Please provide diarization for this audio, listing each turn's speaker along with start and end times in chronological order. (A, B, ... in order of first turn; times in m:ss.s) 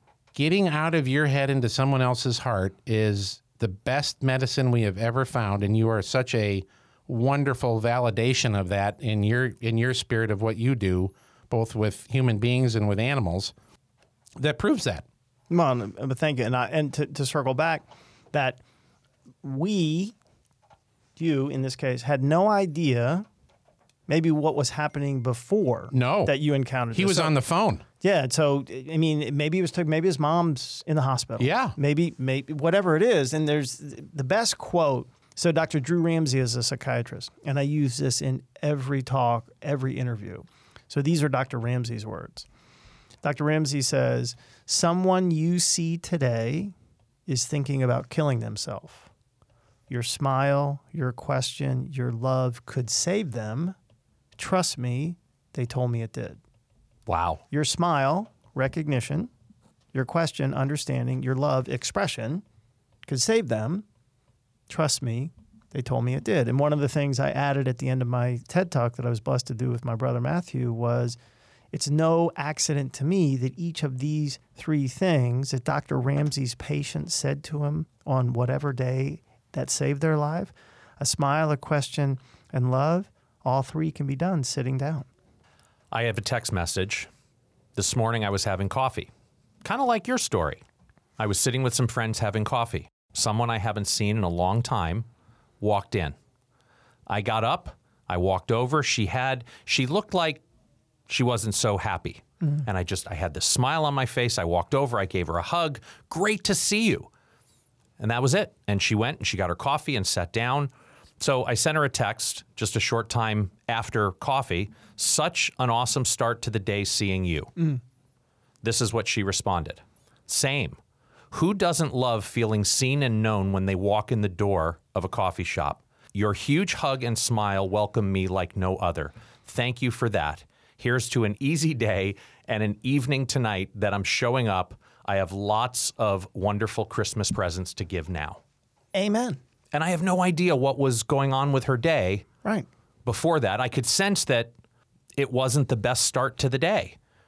0:00.3-0:13.5 A
0:14.4-0:15.0 A
0:15.5-0:18.6 B
0:19.4-0:20.1 B
0:21.2-0:23.2 B
0:24.1-0:27.4 B
0:25.9-0:26.3 A
0:26.9-0:27.8 A
0:28.0-0:42.5 B
0:31.4-0:31.8 A
0:43.2-0:46.7 B
0:47.3-0:49.1 B
0:49.9-0:53.8 B
0:54.4-0:56.4 B
0:57.1-0:57.4 C
0:57.5-0:59.3 B
0:59.9-1:02.4 B
1:03.0-1:03.8 B
1:04.7-1:11.2 B
1:11.7-1:25.1 B
1:25.9-1:27.1 C
1:27.8-1:29.1 C
1:29.6-1:30.6 C
1:31.2-1:35.0 C
1:35.6-1:36.1 C
1:37.1-1:40.4 C
1:41.1-1:47.1 C
1:48.0-1:57.5 C
1:58.6-2:00.8 C
2:01.3-2:18.4 C
2:18.9-2:19.4 B
2:19.7-2:22.2 C
2:23.0-2:24.5 C
2:25.2-2:27.0 C